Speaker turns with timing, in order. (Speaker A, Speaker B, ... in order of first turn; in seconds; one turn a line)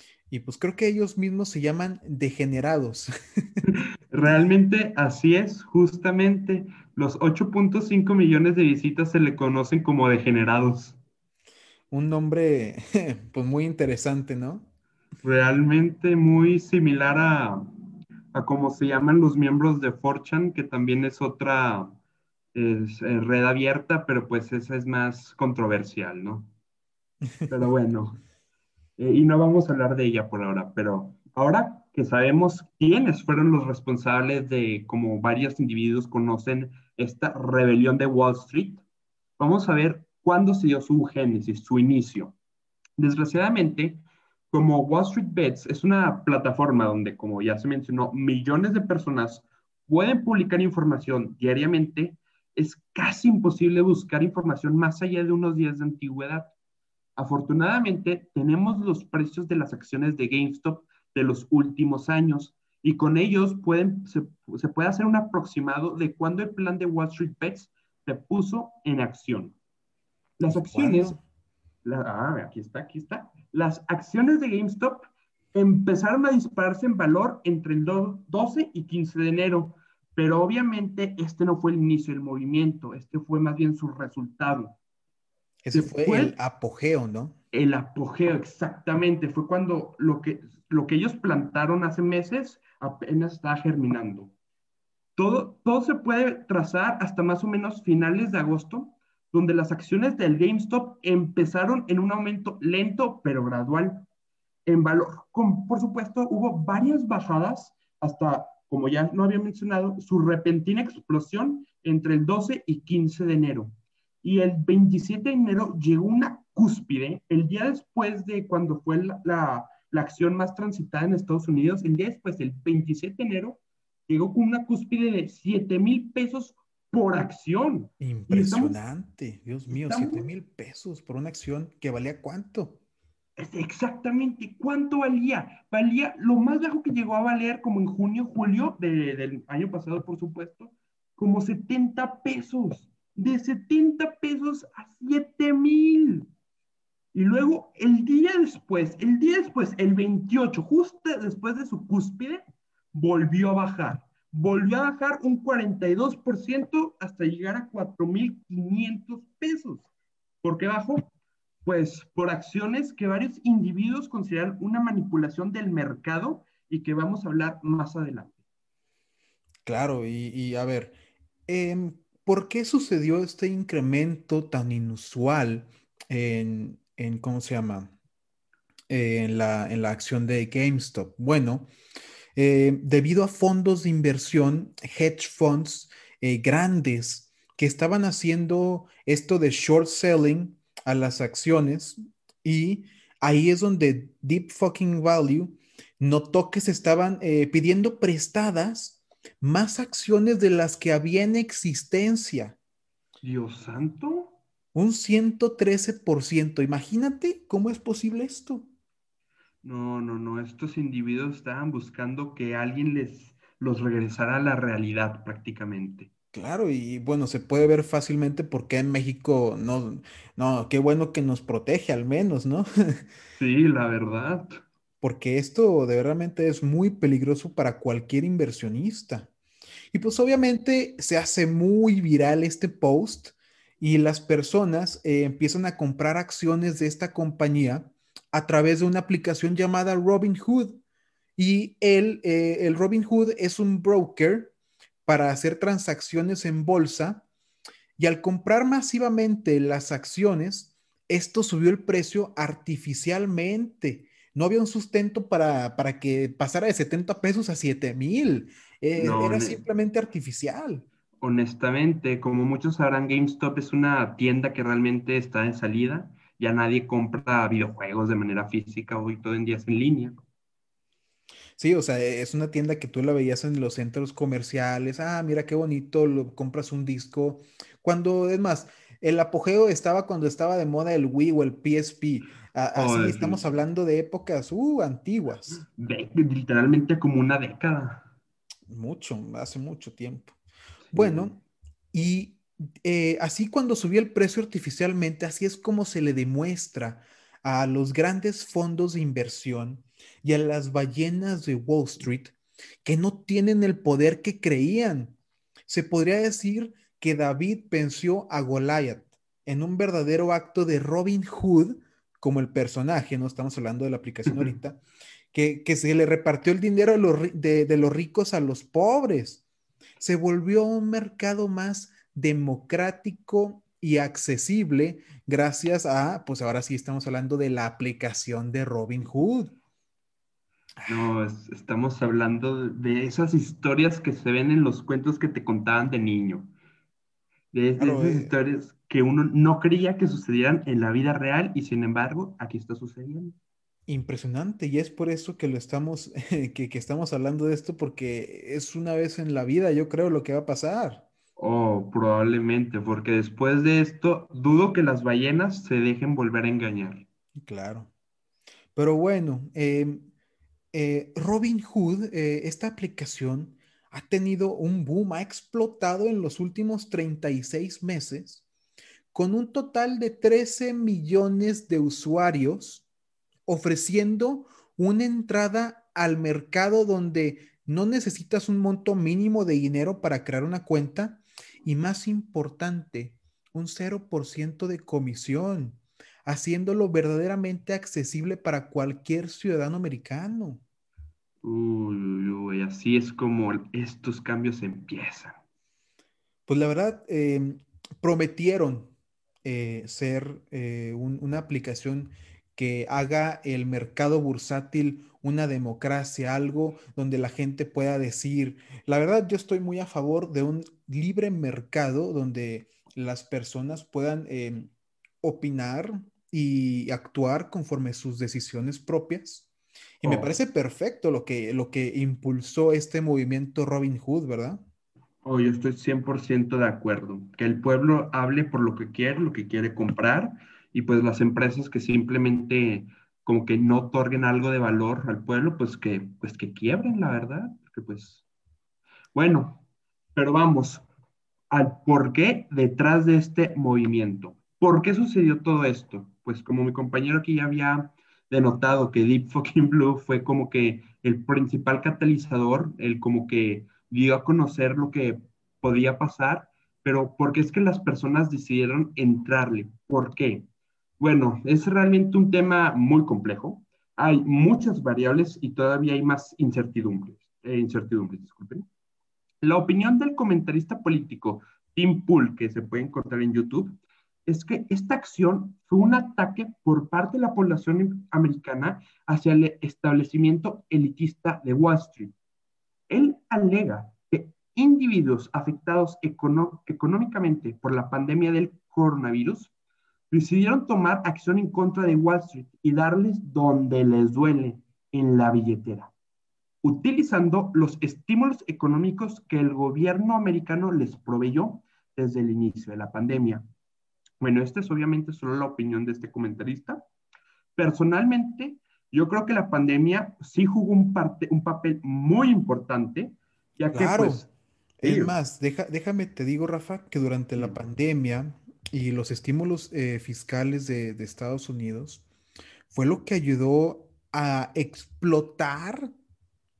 Speaker A: 0.3-3.6
Speaker B: 3.7-11.0
Speaker A: 11.9-14.7
Speaker B: 15.2-17.6
Speaker B: 18.3-21.9
Speaker B: 22.6-26.5
Speaker B: 27.5-28.2
Speaker B: 29.0-38.8
Speaker B: 39.4-42.4
Speaker B: 43.0-56.5
Speaker B: 57.2-69.5
Speaker B: 70.4-71.2
Speaker A: 70.5-71.2
Speaker B: 71.8-84.8
Speaker A: 85.6-87.4
Speaker B: 85.7-86.3
Speaker B: 87.5-94.3
Speaker B: 95.2-104.1
Speaker B: 104.7-128.7
Speaker A: 128.0-132.8
Speaker B: 129.7-130.3
Speaker B: 133.4-146.3
Speaker B: 147.1-159.9
Speaker B: 160.4-161.1
Speaker B: 161.7-168.4
Speaker A: 169.7-171.0
Speaker A: 171.5-177.9
Speaker A: 178.9-181.7
Speaker A: 182.4-202.6
Speaker B: 203.2-204.4
Speaker A: 204.7-208.7
Speaker B: 209.6-216.1
Speaker A: 216.3-223.0
Speaker B: 223.4-224.6
Speaker A: 225.0-229.3
Speaker A: 229.9-240.8
Speaker A: 241.4-244.5
Speaker A: 245.1-247.2
Speaker A: 248.0-260.9
Speaker B: 259.0-259.6
Speaker B: 261.2-270.2
Speaker A: 271.6-285.6
Speaker B: 282.8-283.4
Speaker B: 285.7-288.1
Speaker A: 288.7-290.4
Speaker B: 290.9-291.4
Speaker A: 290.9-291.4
Speaker A: 291.9-314.8
Speaker A: 315.3-319.4
Speaker A: 320.0-329.5
Speaker A: 330.8-331.1
Speaker B: 330.9-336.5
Speaker B: 337.5-343.4
Speaker A: 337.8-338.3
Speaker A: 343.9-351.1
Speaker B: 351.4-357.1
Speaker A: 357.4-357.9
Speaker A: 358.8-360.1
Speaker A: 360.7-368.4
Speaker A: 369.1-372.9
Speaker A: 373.5-390.6
Speaker B: 391.4-395.4
Speaker A: 396.5-398.9
Speaker A: 399.4-414.7
Speaker A: 415.2-419.5
Speaker A: 420.0-424.6
Speaker B: 420.0-420.3
Speaker B: 425.2-438.2
Speaker B: 439.1-439.6
Speaker B: 440.1-440.9
Speaker B: 441.5-460.5
Speaker B: 461.0-468.7
Speaker B: 469.4-473.7
Speaker B: 474.3-482.1
Speaker B: 482.9-489.5
Speaker B: 490.1-495.9
Speaker B: 496.6-503.4
Speaker B: 504.2-506.8
Speaker B: 507.6-514.3
Speaker A: 513.7-514.3
Speaker A: 514.8-522.0
Speaker B: 514.8-515.1
Speaker A: 522.7-525.9